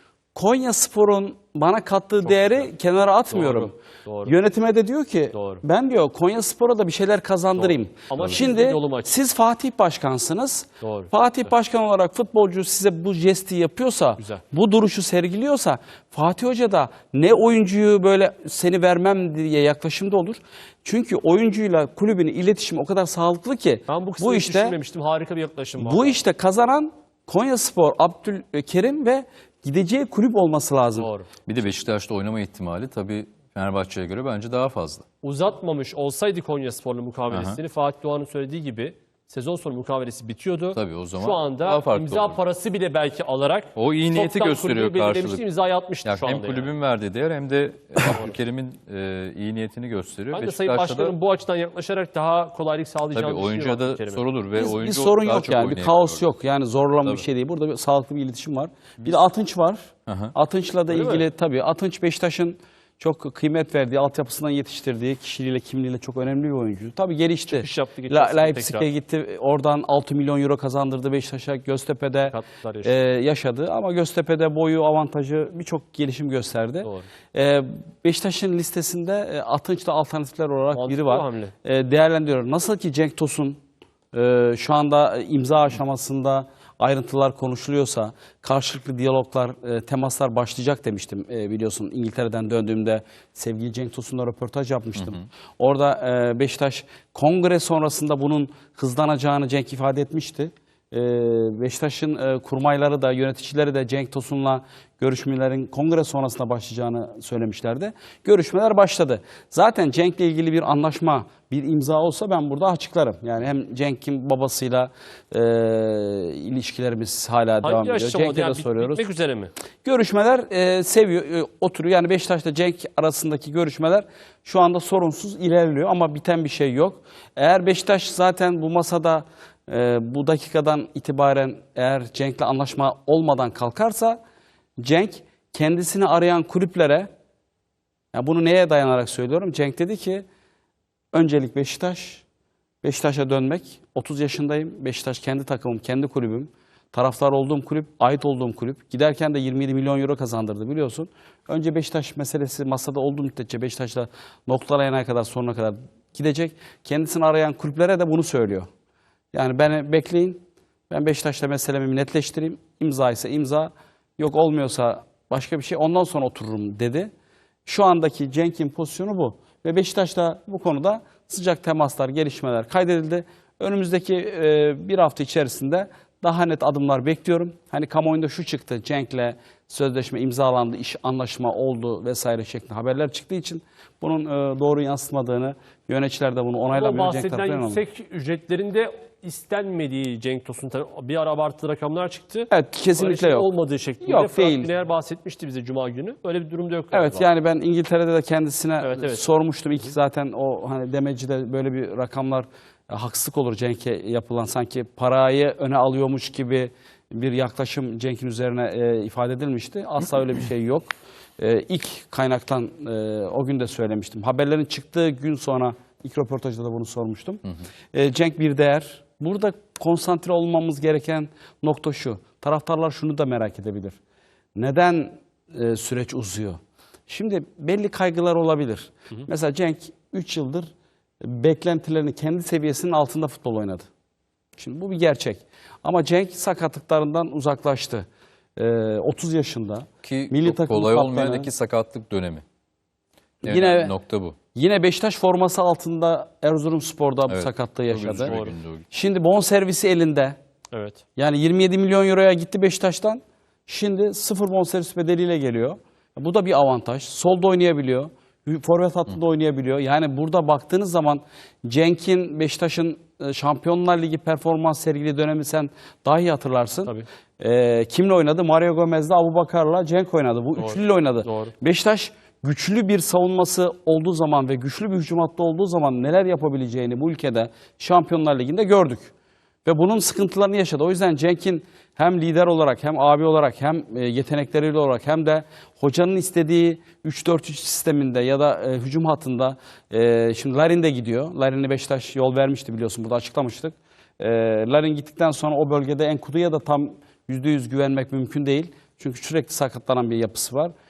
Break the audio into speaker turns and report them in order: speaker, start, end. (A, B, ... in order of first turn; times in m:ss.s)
0:00.3-0:03.7 A
0:02.2-0:02.7 B
0:03.3-0:04.3 B
0:04.2-0:24.8 A
0:05.3-0:05.6 B
0:07.6-0:09.1 B
0:10.8-0:11.1 B
0:14.2-0:14.4 B
0:23.9-0:26.2 B
0:25.8-0:31.1 A
0:31.0-0:31.3 B
0:31.5-0:35.0 C
0:35.2-0:46.7 B
0:37.3-0:37.6 C
0:40.7-0:42.4 C
0:43.7-0:45.4 C
0:46.0-0:51.2 C
0:48.1-0:48.3 B
0:50.3-0:54.2 B
0:53.1-0:56.2 C
0:54.5-1:23.6 A
1:00.0-1:00.3 C
1:00.9-1:01.2 B
1:07.5-1:08.9 B
1:12.2-1:13.0 B
1:16.8-1:17.1 B
1:20.7-1:21.5 B
1:24.1-1:59.0 A
1:35.0-1:35.2 C
1:57.6-1:59.5 B
1:59.8-2:14.2 A
2:14.8-2:17.1 A
2:18.1-2:20.2 A
2:21.1-2:22.2 A
2:22.8-2:38.7 A
2:39.3-2:47.1 A
2:47.6-3:07.8 A
3:06.7-3:17.2 B
3:12.5-3:13.5 A
3:14.0-3:14.7 A
3:16.9-3:37.4 A
3:18.8-3:19.2 B
3:37.9-3:44.0 A
3:44.5-3:50.7 A
3:51.2-3:53.9 A
3:54.6-4:01.5 A
4:00.0-4:02.4 C
4:03.4-4:03.9 A
4:03.4-4:04.4 C
4:04.5-4:08.4 A
4:07.3-4:08.8 C
4:08.2-4:08.5 B
4:08.9-4:10.4 A
4:10.7-4:11.0 B
4:11.2-4:39.1 A
4:30.6-4:31.5 B
4:39.6-5:00.7 A